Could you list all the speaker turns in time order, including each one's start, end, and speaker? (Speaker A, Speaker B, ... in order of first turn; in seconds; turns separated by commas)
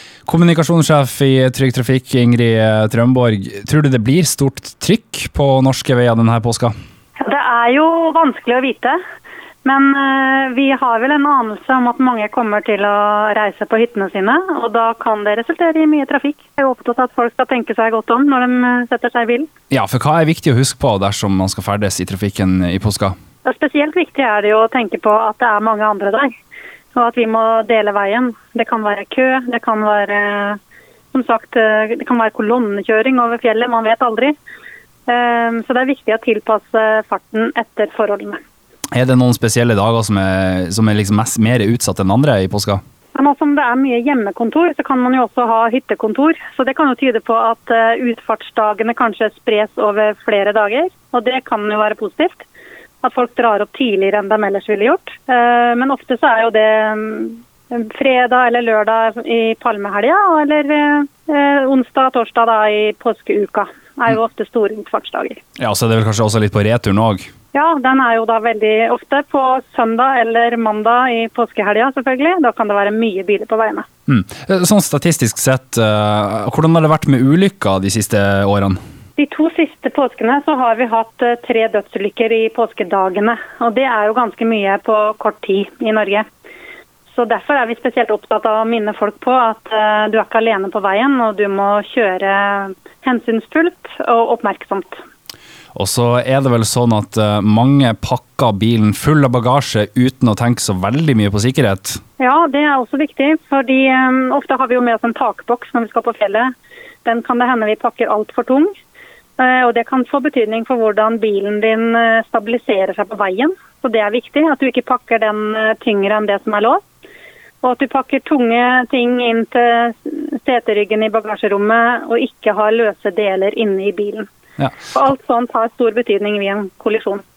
Speaker A: 0.2-6.7, Speaker B: 7.2-9.0, Speaker B: 9.6-19.5, Speaker A: 19.7-23.1, Speaker B: 23.4-26.3, Speaker B: 26.9-30.6, Speaker B: 31.1-34.4, Speaker B: 35.1-38.4, Speaker A: 38.9-42.8, Speaker B: 43.1-52.5, Speaker B: 53.0-65.4, Speaker A: 65.6-67.3, Speaker B: 67.5-73.9, Speaker A: 74.1-78.8, Speaker B: 79.2-86.2, Speaker B: 87.1-95.0, Speaker A: 95.7-102.0, Speaker B: 102.2-106.5, Speaker B: 107.0-108.7, Speaker B: 109.4-116.8, Speaker B: 117.6-124.3, Speaker A: 124.6-124.9, Speaker B: 124.9-127.2